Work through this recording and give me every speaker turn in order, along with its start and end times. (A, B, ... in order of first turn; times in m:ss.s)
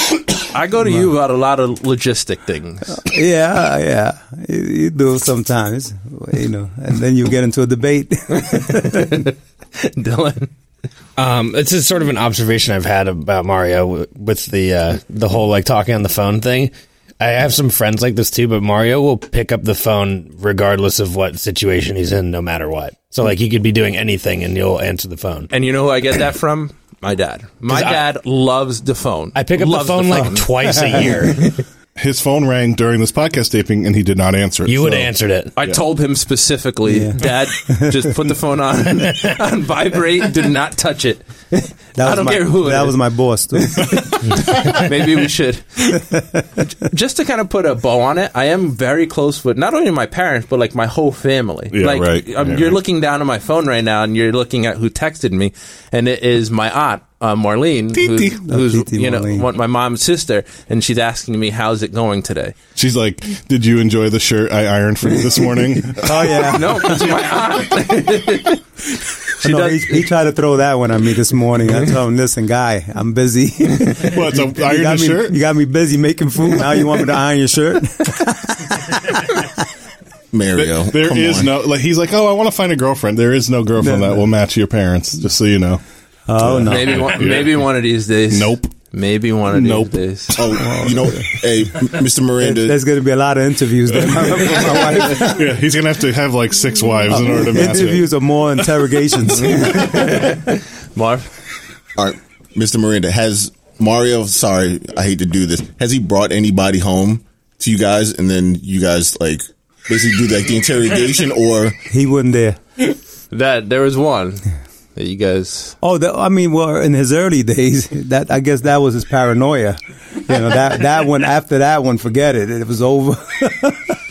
0:00.4-0:03.0 A
0:02.9-0:09.2 B
0:08.4-0:10.5 A
0:11.2-0:25.5 C
0:25.5-0:31.1 A
0:27.7-0:28.1 C
0:29.4-0:31.4 C
0:30.6-0:31.5 B
0:32.0-0:35.1 D
0:34.6-0:35.6 C
0:34.8-0:35.1 B
0:35.6-0:43.0 A
0:36.8-0:38.1 B
0:42.0-0:43.8 B
0:43.6-0:45.9 A
0:46.7-1:02.6 A
0:51.7-0:52.8 D
0:58.3-0:59.5 B
1:02.8-1:06.4 D
1:05.9-1:07.2 B
1:06.5-1:08.6 A
1:09.4-1:10.0 A
1:09.4-1:19.0 B
1:14.0-1:15.4 D
1:20.3-1:21.5 E
1:20.5-1:25.8 D
1:23.8-1:24.3 B
1:26.3-1:27.0 B
1:26.4-1:27.7 D
1:26.7-1:30.4 A
1:28.3-1:28.7 D
1:29.5-1:30.5 D
1:30.4-1:32.8 E
1:30.6-1:31.6 B
1:32.4-1:35.4 B
1:34.0-1:38.1 D
1:37.1-1:39.5 B
1:39.4-1:41.3 A
1:42.0-1:51.8 E
1:51.9-1:52.6 B
1:53.3-1:55.8 A
1:55.8-2:03.9 B